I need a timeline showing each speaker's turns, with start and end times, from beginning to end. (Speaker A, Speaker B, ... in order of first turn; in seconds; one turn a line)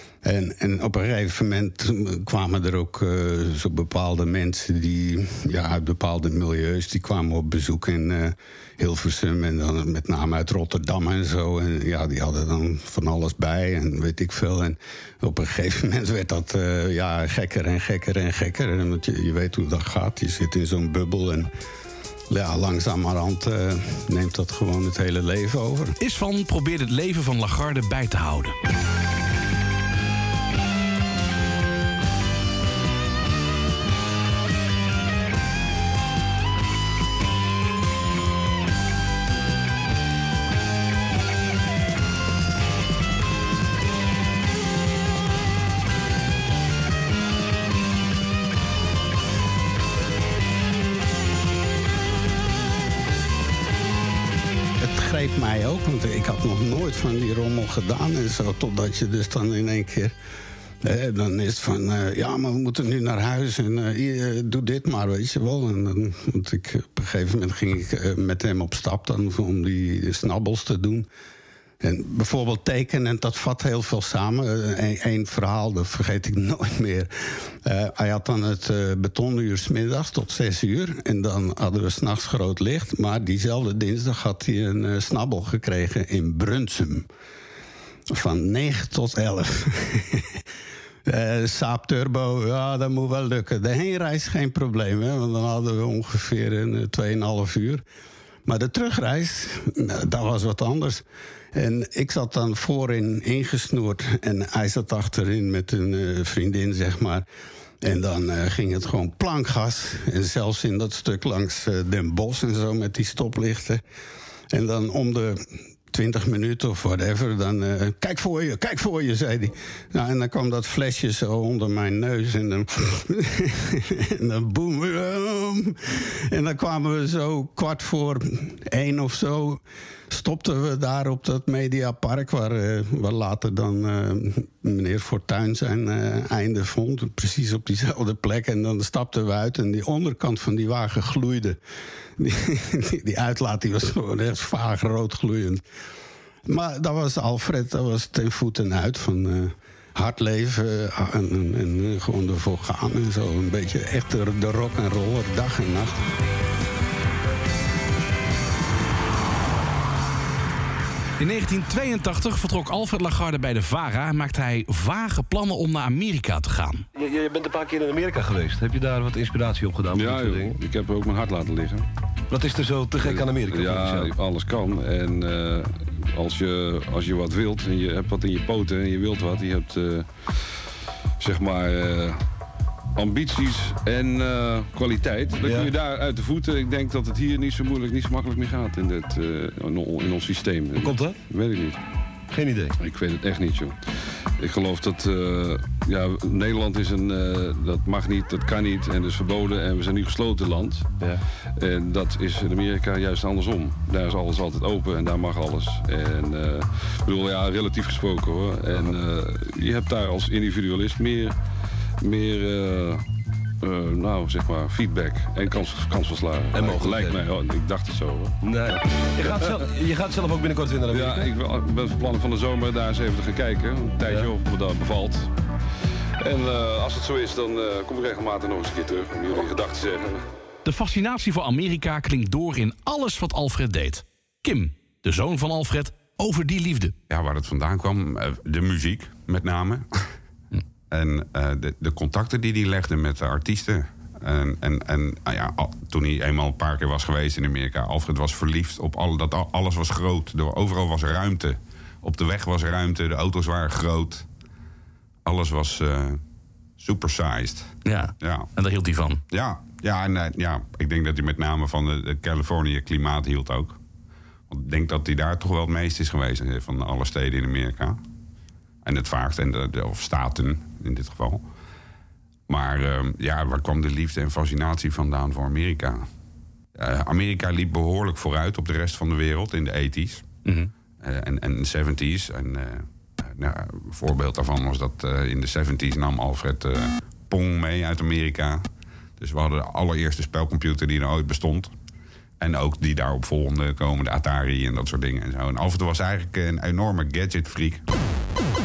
Speaker A: 0.2-21.5
Speaker A: 22.3-25.9
Speaker B: 26.0-28.6
Speaker A: 54.8-60.1
Speaker A: 60.8-71.1
Speaker A: 71.8-77.1
Speaker A: 77.6-87.1
Speaker A: 88.1-90.3
Speaker A: 91.1-97.8
Speaker A: 98.5-101.0
Speaker A: 101.5-107.2
Speaker A: 107.8-113.8
Speaker A: 114.5-141.6
Speaker A: 142.2-145.6
Speaker A: 146.5-156.0
Speaker B: 161.2-166.9
Speaker C: 166.9-170.5
Speaker D: 169.9-171.9
Speaker C: 172.3-174.1
Speaker D: 173.0-180.1
Speaker D: 181.2-182.2
Speaker D: 183.0-191.8
Speaker C: 185.4-185.7
Speaker C: 190.8-191.2
Speaker C: 192.3-192.7
Speaker D: 192.8-193.8
Speaker D: 194.4-200.9
Speaker D: 201.6-211.3
Speaker D: 212.0-213.0
Speaker D: 213.6-219.5
Speaker C: 216.6-217.2
Speaker C: 218.4-221.2
Speaker D: 220.9-225.3
Speaker D: 226.2-230.2
Speaker B: 230.7-237.0
Speaker E: 237.1-239.9
Speaker E: 240.9-254.3
Speaker E: 255.2-256.2
Speaker E: 256.8-258.5
Speaker B: 257.9-259.2
Speaker E: 259.3-263.8
Speaker E: 264.5-268.0
Speaker E: 268.8-271.4
Speaker E: 272.5-276.1
Speaker E: 276.8-280.3
Speaker E: 281.0-288.6
Speaker E: 289.2-291.7
Speaker E: 292.4-297.8